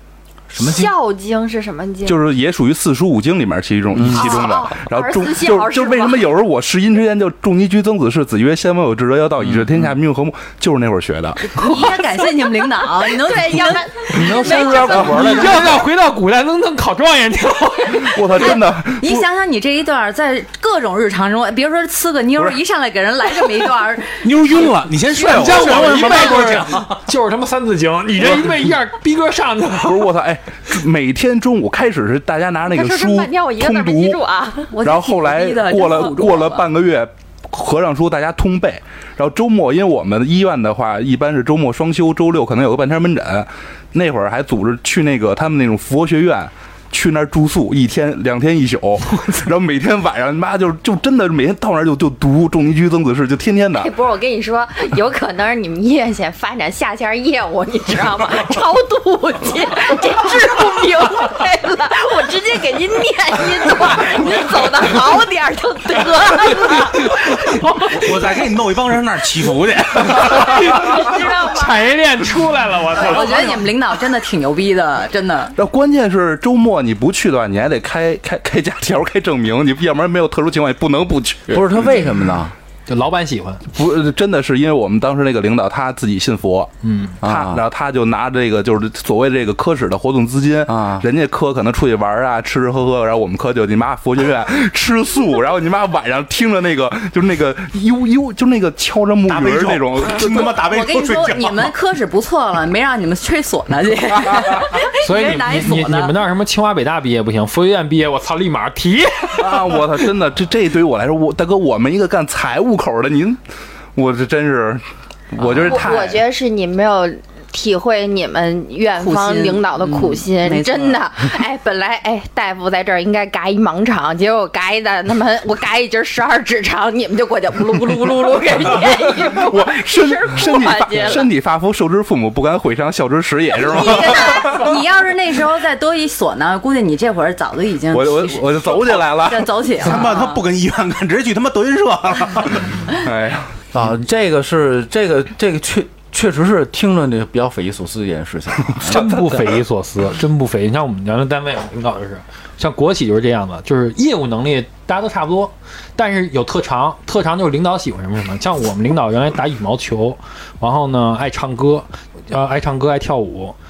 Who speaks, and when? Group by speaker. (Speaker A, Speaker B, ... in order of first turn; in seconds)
Speaker A: 0.5-0.9, 3.9-4.5, 9.4-9.9, 81.5-82.5, 87.2-87.6, 90.7-91.0, 143.7-149.0
Speaker B: 0.6-2.2, 4.0-6.3, 13.0-15.6, 32.6-34.7, 53.8-67.4, 70.3-71.9, 72.9-73.5, 115.7-131.3
Speaker C: 2.0-11.8, 14.2-15.7, 17.9-19.2, 29.8-34.2, 34.8-53.9, 75.6-82.0, 83.7-86.7, 87.2-100.5, 109.4-113.4, 113.9-116.2, 128.7-134.8, 137.9-139.9, 142.9-143.5, 148.8-149.1
Speaker D: 11.4-15.3, 18.4-26.5, 34.7-36.6, 72.9-75.5, 100.4-106.1, 119.0-121.0, 133.7-140.4
Speaker E: 14.1-18.4, 25.2-30.1, 67.6-68.4, 70.0-73.6, 82.9-83.6, 86.8-87.2, 105.0-110.0, 148.8-163.5
Speaker F: 24.2-27.0, 67.8-70.6, 99.3-101.8, 139.8-142.9